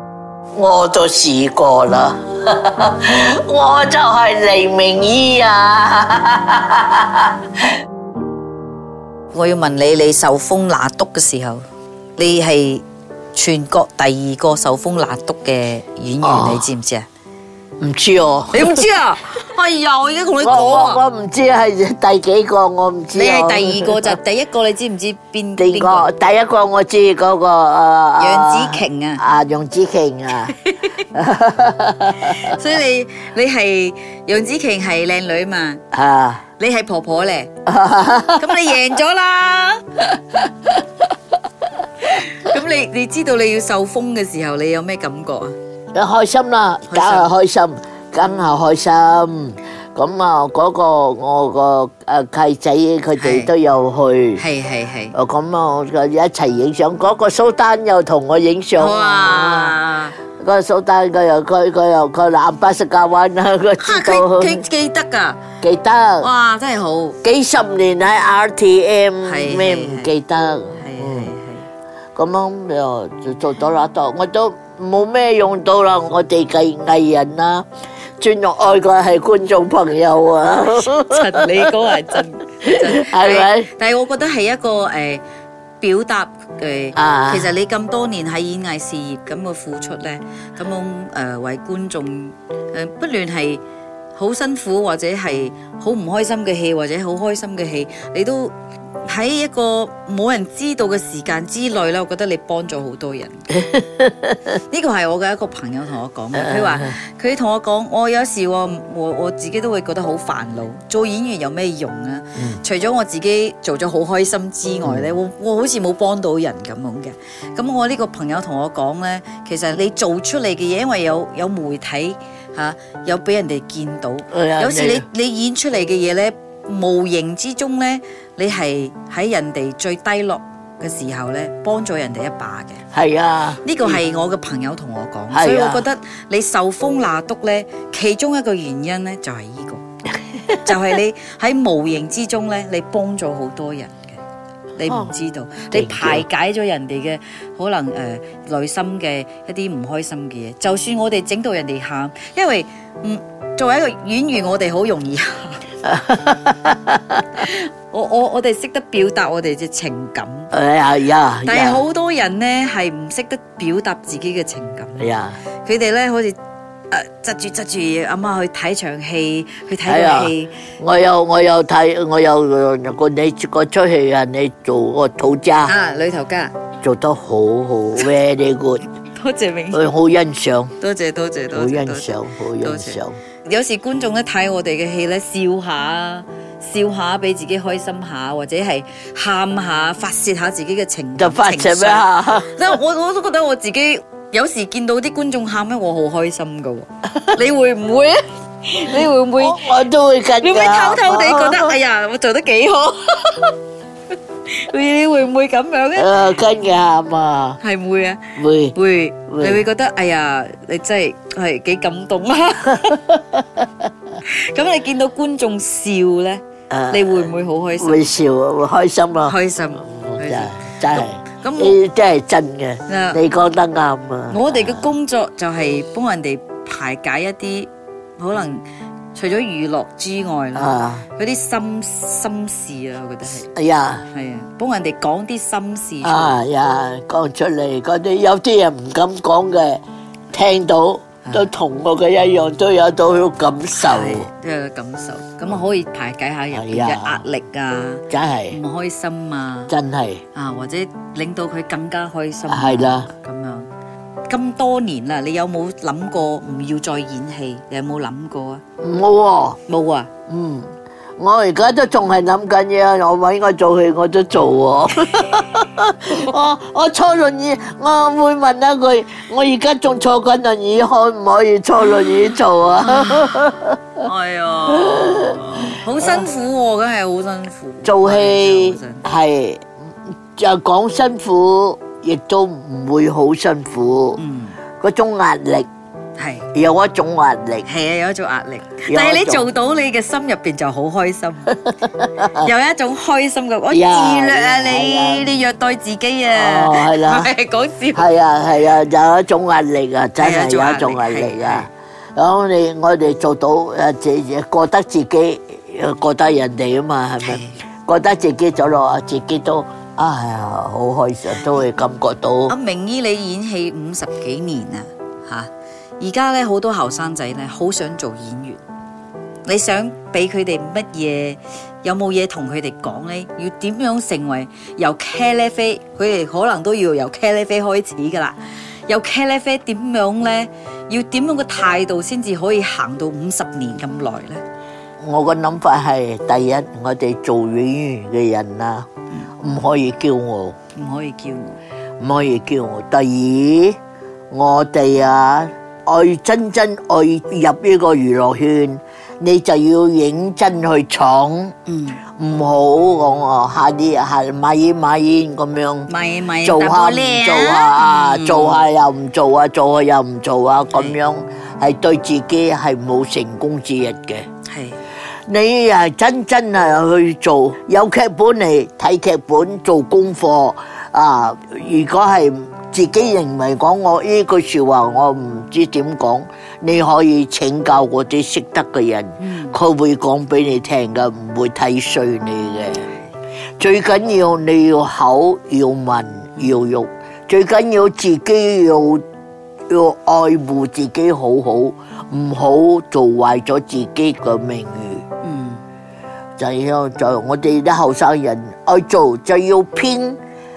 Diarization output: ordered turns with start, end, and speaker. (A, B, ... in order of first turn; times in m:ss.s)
0:00.5-0:07.3 A
0:09.3-0:11.6 B
0:12.2-0:17.0 B
0:16.2-0:16.7 A
0:17.8-0:18.8 A
0:18.5-0:21.0 B
0:20.4-0:24.2 A
0:23.1-0:26.1 B
0:25.6-0:30.5 A
0:28.2-0:29.2 B
0:30.6-0:31.0 B
0:31.1-0:32.5 A
0:32.2-0:35.8 B
0:35.9-0:36.4 A
0:36.6-0:37.5 B
0:37.6-0:38.7 A
0:38.4-0:40.4 B
0:42.0-0:45.5 B
0:45.9-0:54.4 A
0:46.9-0:47.3 B
0:53.2-0:53.5 B
0:54.4-0:55.1 B
0:55.1-0:59.8 A
0:58.8-1:00.2 B
1:00.4-1:04.6 A
1:03.8-1:05.5 B
1:05.6-1:06.3 A
1:06.2-1:07.2 B
1:07.2-1:11.3 A
1:09.2-1:10.1 B
1:10.7-1:11.7 B
1:12.2-1:17.6 A
1:18.2-1:21.7 A
1:20.8-1:25.2 B
1:22.6-1:23.7 A
1:25.8-1:33.6 B
1:26.9-1:27.5 A
1:34.2-1:43.5 B
1:43.5-1:44.4 A
1:44.5-2:12.8 B
1:46.3-1:47.0 A
1:52.4-1:52.6 A
1:54.8-1:55.1 A
2:04.3-2:05.0 A
2:12.9-2:14.0 A
2:13.6-2:19.8 B
2:15.3-2:15.8 A
2:20.5-2:20.7 A
2:20.6-2:24.2 B
2:24.7-2:35.6 B
2:24.8-2:25.1 A
2:25.7-2:26.2 A
2:35.8-2:37.2 A
2:37.3-2:40.5 B
2:40.5-2:41.8 A
2:41.4-2:45.1 B
2:45.0-2:45.4 A
2:45.6-2:46.4 B
2:46.9-2:50.7 B
2:49.8-2:55.7 A
2:55.6-2:56.5 B
2:56.8-2:58.8 A
2:59.1-2:59.8 B
2:59.7-3:00.7 A
3:00.8-3:19.7 B
3:01.5-3:03.2 A
3:11.2-3:12.8 A
3:19.3-3:21.8 A
3:20.4-3:23.6 B
3:24.5-3:26.2 B
3:26.0-3:27.6 A
3:27.6-3:33.2 B
3:28.4-3:28.8 A
3:29.3-3:29.6 A
3:34.2-3:38.2 B
3:36.7-3:37.3 A
3:37.8-3:44.9 A
3:39.2-3:41.8 B
3:42.9-3:43.2 B
3:44.3-3:53.5 B
3:50.5-3:51.0 A
3:53.5-3:54.0 A
3:54.0-3:56.4 B
3:56.0-3:59.8 A
4:00.3-4:04.3 A
4:03.8-4:09.7 B
4:06.5-4:07.2 A
4:08.1-4:08.6 A
4:09.7-4:10.2 A
4:10.3-4:13.7 B
4:12.5-4:13.1 A
4:14.3-4:18.6 B
4:18.8-4:19.6 A
4:19.7-4:20.1 B
4:20.3-4:33.8 A
4:34.0-4:39.0 B
4:34.7-4:35.4 A
4:36.0-4:36.3 A
4:37.8-4:39.7 A
4:40.3-4:44.2 A
4:44.2-4:44.6 B
4:44.8-4:45.7 A
4:46.2-4:46.5 B
4:46.5-4:47.7 A
4:47.6-4:51.5 B
4:48.9-4:49.5 A
4:51.6-4:52.5 A
4:52.3-4:58.1 B
4:53.7-4:55.4 A
4:56.3-4:57.3 A
4:57.9-5:12.5 A
5:00.2-5:01.6 B
5:07.2-5:07.6 B
5:12.5-5:18.6 B
5:19.4-5:34.4 B
5:35.0-5:38.9 A
5:39.4-5:40.6 A
5:40.7-5:41.6 B
5:42.0-5:43.8 A
5:44.3-5:51.5 A
5:51.7-5:52.0 B
5:52.2-5:55.9 A
5:55.9-5:58.6 B
5:56.4-6:04.2 A
6:04.5-6:04.8 B
6:05.3-6:22.9 A
6:19.2-6:19.6 B
6:23.6-6:29.0 A
6:29.7-6:35.0 A
6:35.2-6:35.6 B
6:36.4-6:40.2 A